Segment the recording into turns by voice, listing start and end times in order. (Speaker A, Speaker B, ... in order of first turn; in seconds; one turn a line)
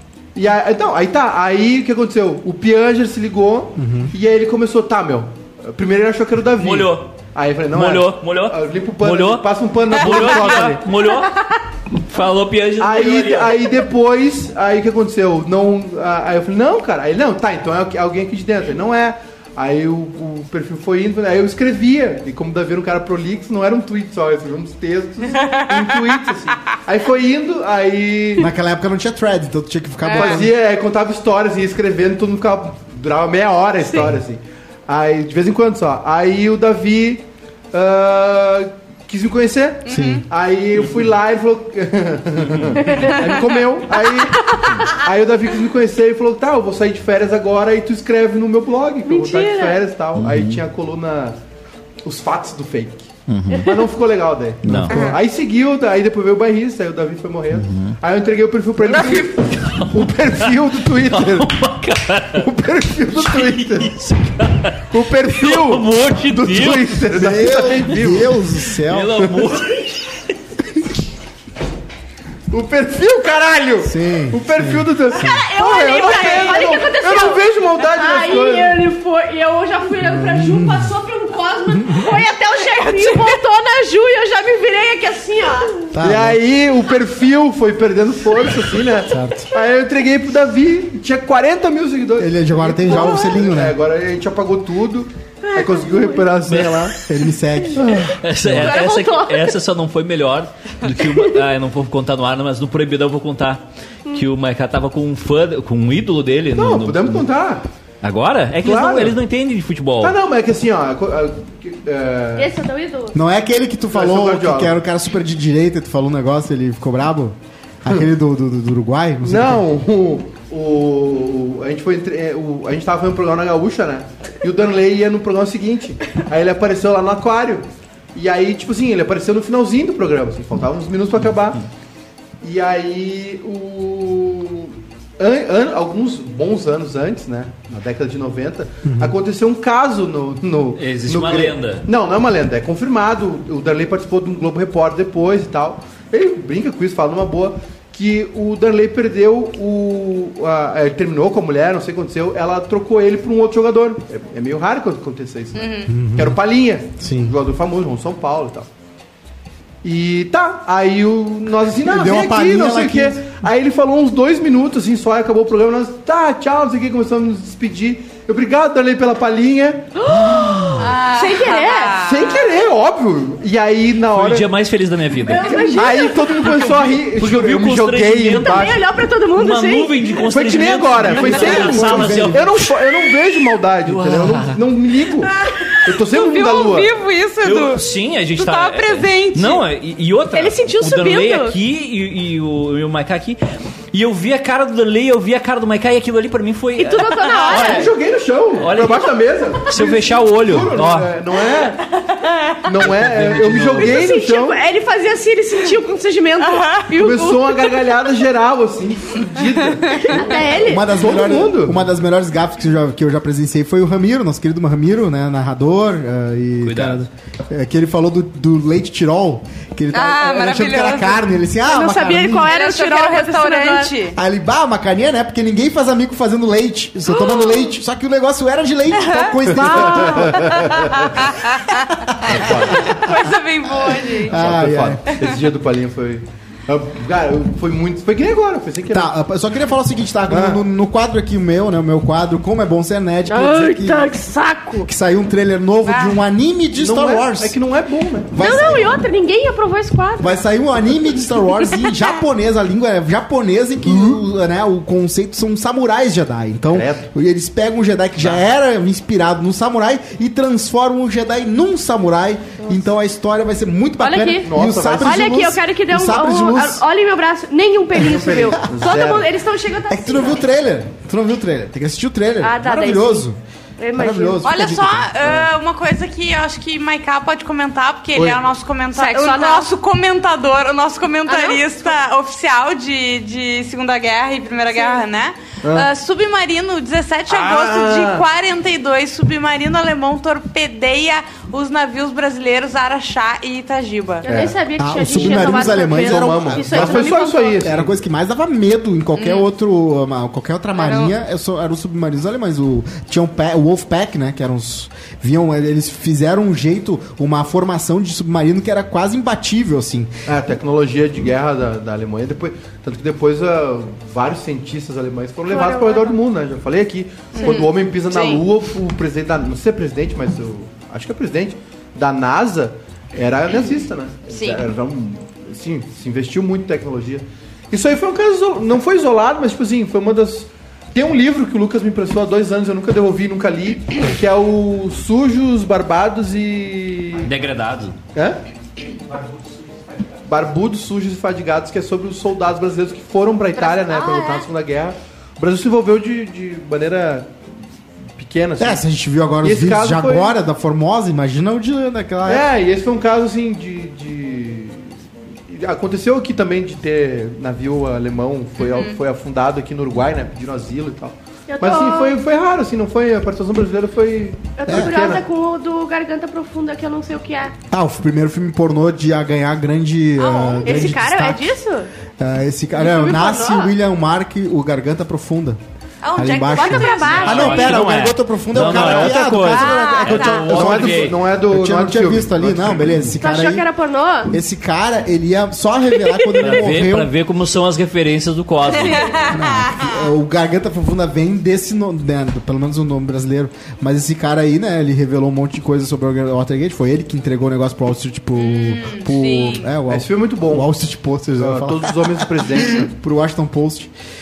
Speaker A: 0.3-10.8
Speaker B: 3.8-4.1
Speaker C: 6.6-7.1
Speaker C: 7.7-13.6
Speaker A: 12.8-28.5
Speaker D: 25.4-25.9
Speaker B: 28.4-30.5
Speaker D: 30.1-30.4
Speaker A: 30.1-51.4
Speaker D: 39.9-40.2
Speaker B: 39.9-40.2
Speaker E: 42.9-43.1
Speaker E: 49.1-49.8
Speaker C: 50.2-50.6
Speaker A: 52.0-61.6
Speaker C: 53.3-53.8
Speaker C: 54.6-55.1
Speaker B: 54.7-55.1
Speaker C: 57.5-58.0
Speaker C: 59.0-62.5
Speaker A: 62.4-64.0
Speaker C: 63.1-67.0
Speaker A: 64.9-68.4
Speaker B: 67.1-69.3
Speaker C: 68.8-70.2
Speaker A: 72.5-78.8
Speaker B: 73.8-75.4
Speaker E: 75.1-85.9
Speaker D: 75.9-76.6
Speaker B: 80.0-80.9
Speaker B: 81.7-82.2
Speaker D: 82.8-83.3
Speaker B: 85.9-86.4
Speaker A: 86.0-97.0
Speaker B: 89.1-89.5
Speaker B: 92.2-93.8
Speaker E: 95.4-96.3
Speaker C: 96.5-96.9
Speaker B: 97.0-98.0
Speaker A: 97.8-98.2
Speaker C: 98.1-107.2
Speaker E: 98.5-99.6
Speaker A: 106.5-107.7
Speaker C: 108.0-110.2
Speaker A: 108.6-109.2
Speaker A: 110.0-112.5
Speaker E: 112.4-113.2
Speaker B: 113.1-119.6
Speaker A: 113.9-114.8
Speaker A: 119.2-131.6
Speaker A: 132.4-158.7
Speaker B: 138.8-139.2
Speaker C: 140.8-141.9
Speaker D: 155.6-155.9
Speaker B: 155.9-156.4
Speaker B: 157.0-157.3
Speaker A: 159.8-170.0
Speaker B: 161.8-163.4
Speaker E: 170.0-172.0
Speaker C: 170.3-170.8
Speaker D: 170.8-172.5
Speaker A: 171.9-174.5
Speaker C: 174.1-175.6
Speaker E: 175.2-176.6
Speaker A: 175.4-178.8
Speaker C: 176.6-178.8
Speaker E: 178.3-180.0
Speaker C: 179.3-182.7
Speaker A: 180.3-186.9
Speaker B: 181.4-182.4
Speaker C: 183.8-184.6
Speaker D: 185.4-187.8
Speaker C: 187.4-193.4
Speaker D: 188.4-189.6
Speaker E: 190.3-191.6
Speaker C: 193.9-197.9
Speaker E: 196.8-197.9
Speaker A: 197.5-201.8
Speaker C: 198.6-201.1
Speaker A: 202.6-204.6
Speaker C: 202.8-204.0
Speaker E: 203.8-207.8
Speaker D: 206.5-206.8
Speaker A: 206.9-211.8
Speaker E: 210.0-210.9
Speaker B: 210.6-222.5
Speaker C: 216.6-217.1
Speaker D: 219.9-221.2
Speaker E: 221.7-223.9
Speaker D: 222.5-224.2
Speaker B: 224.2-230.7
Speaker D: 227.1-227.7
Speaker D: 228.9-234.4
Speaker A: 229.5-231.2
Speaker E: 229.6-230.4
Speaker B: 232.1-233.1
Speaker A: 232.3-233.0
Speaker A: 234.2-239.1
Speaker B: 234.2-235.0
Speaker B: 238.9-244.1
Speaker A: 240.3-240.6
Speaker E: 243.3-244.9
Speaker B: 244.8-247.6
Speaker D: 245.9-246.2
Speaker A: 246.8-248.3
Speaker B: 248.3-249.0
Speaker E: 248.4-250.4
Speaker B: 250.2-266.8
Speaker A: 253.9-254.2
Speaker A: 256.7-257.1
Speaker E: 264.0-270.4
Speaker A: 264.4-265.3
Speaker A: 268.0-269.3
Speaker B: 269.9-273.4
Speaker E: 272.4-273.3
Speaker E: 273.8-274.5
Speaker B: 274.0-275.4
Speaker D: 274.4-294.2
Speaker A: 278.1-278.4
Speaker E: 278.9-279.7
Speaker E: 281.3-281.9
Speaker A: 287.3-288.2
Speaker E: 294.2-297.6
Speaker A: 294.2-294.6
Speaker B: 294.8-310.1
Speaker A: 295.1-297.9
Speaker D: 299.2-299.5
Speaker D: 300.8-301.1
Speaker A: 310.3-337.3
Speaker E: 315.5-316.2
Speaker D: 317.4-318.4
Speaker D: 324.3-324.6
Speaker C: 337.3-338.0
Speaker A: 338.1-338.4
Speaker A: 340.2-347.3
Speaker D: 343.6-344.5
Speaker A: 348.2-348.8
Speaker B: 348.6-352.5
Speaker A: 349.4-350.3
Speaker A: 352.2-354.9
Speaker A: 355.5-365.2
Speaker D: 358.6-359.0
Speaker E: 361.5-362.2
Speaker E: 364.6-367.5
Speaker B: 364.7-365.0
Speaker B: 367.7-371.5
Speaker D: 370.2-371.0
Speaker E: 370.6-371.9
Speaker B: 372.2-375.6
Speaker E: 372.8-373.7
Speaker D: 376.0-377.8
Speaker B: 376.2-383.7
Speaker E: 376.5-377.9
Speaker C: 377.1-381.2
Speaker D: 379.4-380.5
Speaker A: 380.5-383.1
Speaker E: 383.2-384.3
Speaker B: 384.3-387.1
Speaker E: 386.1-386.4
Speaker C: 386.4-389.3
Speaker D: 388.8-390.0
Speaker B: 389.3-403.9
Speaker D: 398.4-399.7
Speaker A: 399.9-400.7
Speaker A: 401.4-402.9